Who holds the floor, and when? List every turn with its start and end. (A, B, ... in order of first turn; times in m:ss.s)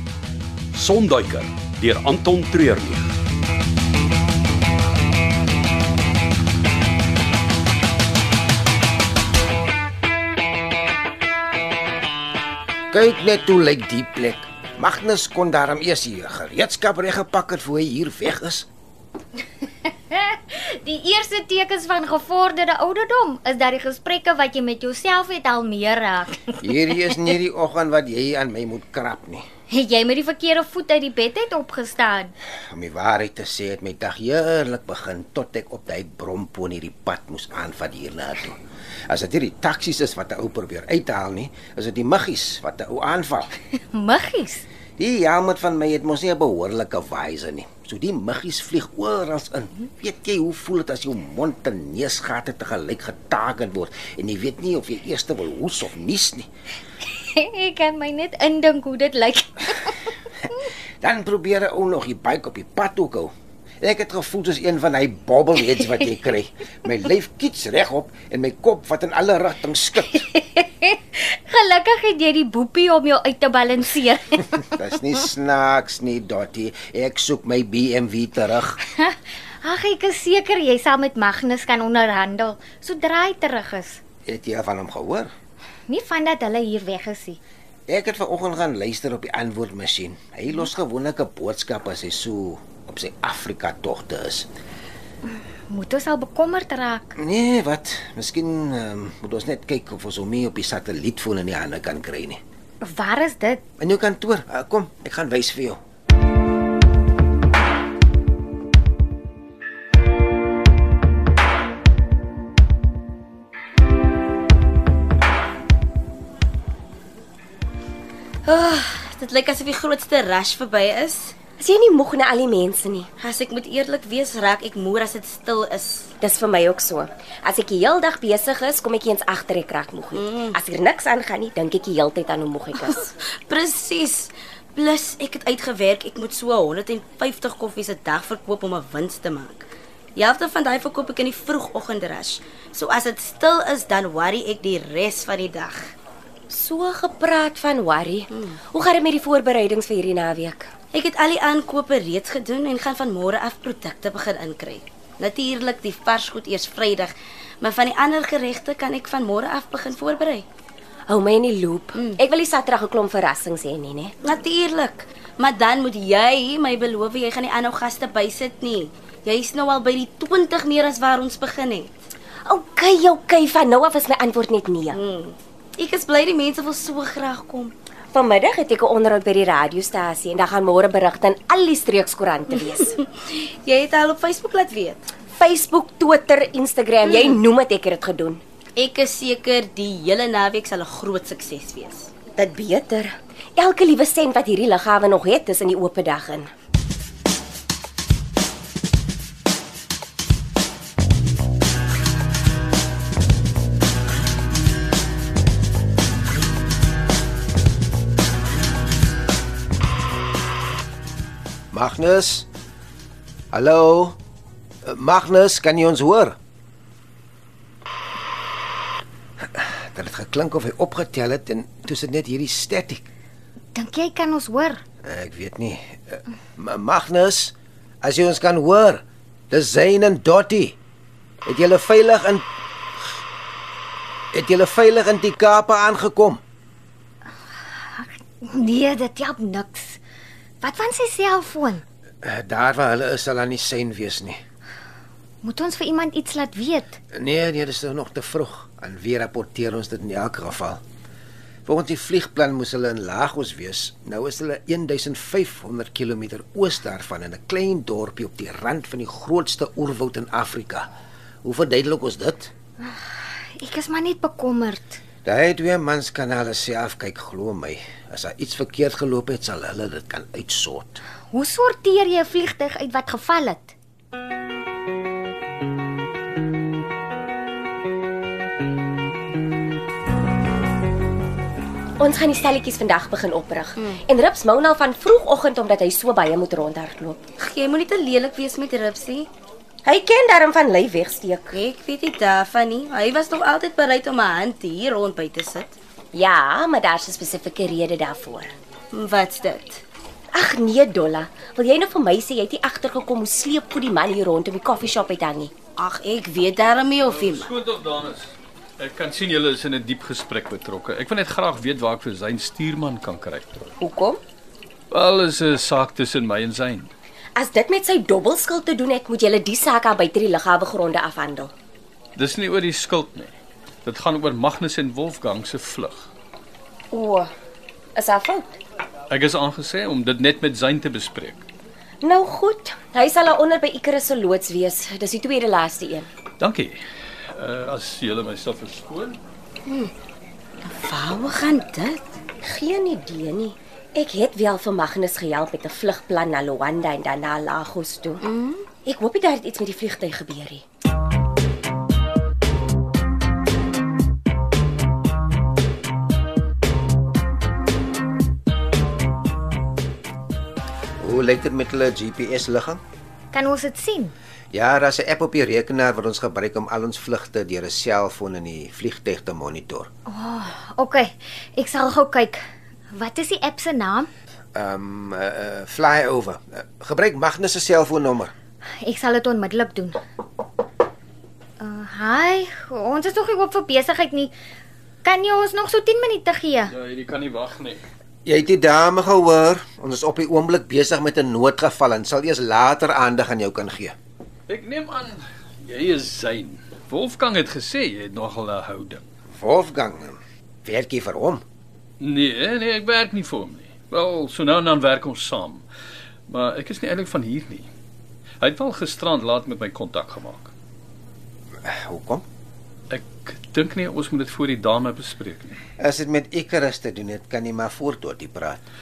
0:00.7-0:03.0 A
0:12.9-0:18.7 B
0:19.9-0:27.3 C
0:26.6-0:29.4 B
0:29.7-0:32.3 C
0:32.7-0:43.5 B
0:43.9-0:44.6 C
0:45.0-0:56.5 B
0:57.1-1:00.1 C
1:01.0-1:10.2 B
1:10.1-1:14.6 C
1:14.7-1:18.8 B
1:18.9-1:24.0 C
1:24.2-1:25.3 B
1:25.9-1:27.4 C
1:27.9-1:34.5 B
1:35.7-1:37.1 C
1:37.2-1:42.4 B
1:42.8-1:43.6 C
1:43.8-1:45.8 B
1:58.4-2:01.4 D
2:01.6-2:03.1 E
2:03.2-2:06.1 D
2:06.2-2:13.1 E
2:10.1-2:10.6 D
2:12.7-2:25.9 D
2:26.5-2:30.7 E
2:28.3-2:28.6 D
2:30.9-2:40.5 D
2:41.1-2:44.1 E
2:41.9-2:42.2 D
2:44.2-2:52.0 D
2:52.4-2:55.0 E
2:54.9-2:57.7 D
2:58.1-3:03.0 E
3:02.5-3:05.1 D
3:05.4-3:08.4 E
3:07.1-3:07.4 D
3:08.8-3:12.2 D
3:12.4-3:16.5 E
3:31.7-3:32.5 B
3:33.5-3:34.2 B
3:34.8-3:36.4 B
3:39.5-3:43.1 B
3:43.8-3:44.8 C
3:45.0-3:50.8 B
3:51.5-3:52.5 B
3:54.3-3:56.4 B
3:57.9-4:00.0 C
4:00.6-4:01.8 C
4:02.2-4:04.4 B
4:05.4-4:07.0 C
4:07.1-4:10.8 B
4:11.7-4:20.9 B
4:21.4-4:22.5 B
4:22.8-4:25.0 C
4:25.2-4:31.0 B
4:31.3-4:33.8 C
4:42.0-4:47.2 E
4:47.4-4:49.3 D
4:49.8-4:51.6 E
4:51.5-4:55.8 D
4:56.1-4:58.6 E
4:58.9-4:59.8 D
5:00.3-5:05.5 E
5:05.8-5:07.5 D
5:07.0-5:13.7 F
5:13.8-5:14.2 E
5:14.9-5:16.9 F
5:17.4-5:21.5 E
5:22.2-5:23.3 F
5:23.8-5:26.1 F
5:26.9-5:27.3 E
5:28.0-5:28.6 E
5:29.1-5:31.4 F
5:32.0-5:36.1 E
5:36.4-5:36.8 F
5:37.4-5:39.2 F
5:39.6-5:39.9 D
5:40.6-5:42.2 D
5:42.4-5:48.2 E
5:48.2-5:48.7 D
5:48.8-5:50.6 E
6:01.0-6:02.8 B
6:03.3-6:04.1 C
6:04.5-6:09.9 B
6:10.1-6:14.1 C
6:14.6-6:18.3 B
6:18.8-6:20.0 C
6:21.6-6:24.3 C
6:25.0-6:26.7 C
6:26.7-6:27.8 F
6:28.2-6:34.0 B
6:34.5-6:39.0 F
6:39.4-6:41.4 B
6:42.0-6:45.6 F
6:46.3-6:47.7 F
6:48.4-6:50.5 F
6:51.6-6:52.2 B
6:52.9-6:55.6 F
6:55.8-6:58.6 B